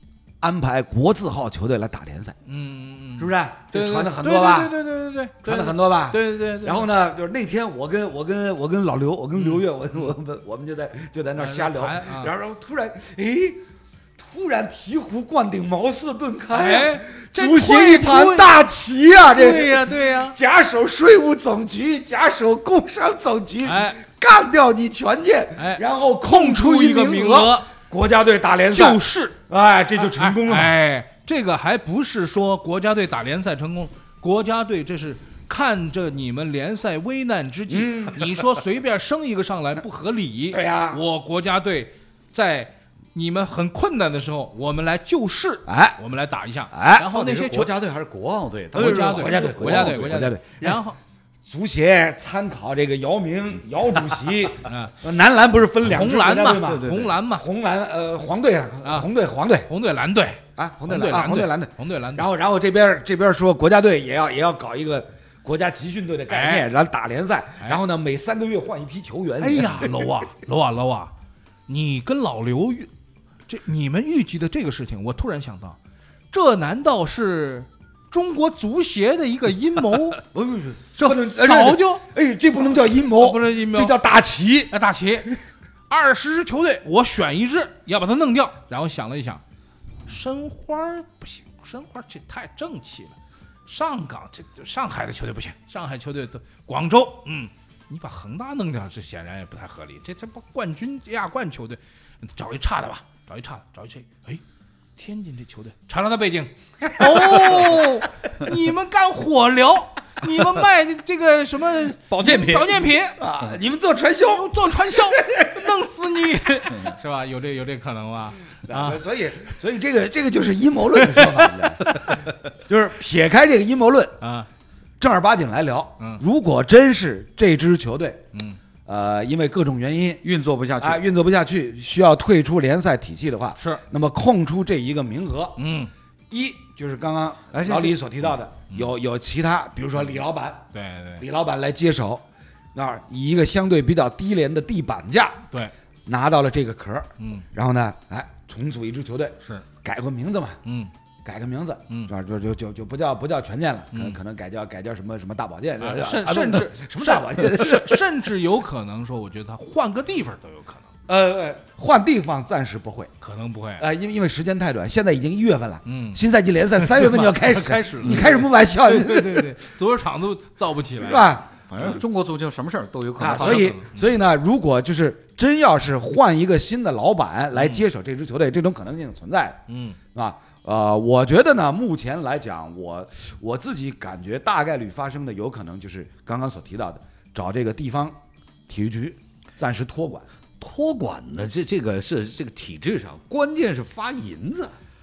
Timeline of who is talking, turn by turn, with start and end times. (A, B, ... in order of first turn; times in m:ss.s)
0:00.4-0:02.4 A
0:02.5-0:06.9 B
0:03.2-0:04.8 A
0:05.4-0:13.6 A
0:09.4-0:09.6 B
0:11.4-0:12.3 B
0:14.2-0:30.8 A
0:16.5-0:18.5 B
0:19.2-0:20.4 B
0:23.6-0:24.0 B
0:25.6-0:27.7 B
0:28.7-0:29.4 B
0:30.0-0:47.7 B
0:37.7-0:38.3 A
0:40.5-0:41.0 A
0:45.7-0:46.0 A
0:46.7-0:47.1 A
0:47.1-0:50.3 C
0:48.8-0:50.8 A
0:48.8-0:51.0 B
0:51.5-0:59.7 A
0:54.7-0:55.0 B
0:55.8-0:57.5 B
0:56.6-0:57.2 C
0:58.8-0:59.1 B
0:59.6-1:02.2 B
1:00.6-1:09.9 A
1:06.3-1:06.7 B
1:09.4-1:11.1 B
1:11.7-1:12.9 B
1:13.5-1:15.8 B
1:16.3-1:20.2 B
1:20.3-1:24.7 A
1:21.0-1:22.0 B
1:23.2-1:24.0 B
1:24.7-1:25.4 B
1:25.9-1:29.4 B
1:30.1-1:44.4 B
1:45.0-1:53.2 B
1:52.1-1:52.9 C
1:53.2-1:55.6 A
1:54.4-1:59.0 B
1:58.7-2:04.2 A
2:04.2-2:04.5 B
2:05.0-2:08.2 A
2:08.3-2:08.6 B
2:08.9-2:10.2 A
2:10.2-2:11.0 C
2:10.8-2:15.6 A
2:13.6-2:13.8 B
2:15.6-2:15.9 B
2:16.3-2:20.7 A
2:17.5-2:18.0 C
2:20.7-2:21.2 B
2:21.2-2:25.4 A
2:26.1-2:30.6 A
2:27.2-2:27.5 B
2:30.6-2:30.9 B
2:31.2-2:38.0 A
2:35.8-2:40.9 B
2:41.1-2:43.1 A
2:43.2-2:43.8 B
2:43.8-2:49.6 A
2:45.9-2:46.2 B
2:46.8-2:51.9 B
2:51.0-2:51.9 A
2:51.7-2:53.8 C
2:53.2-2:59.6 A
2:53.3-2:54.1 B
2:57.6-2:57.8 B
2:59.7-3:00.0 B
3:00.1-3:10.3 A
3:10.6-3:14.7 C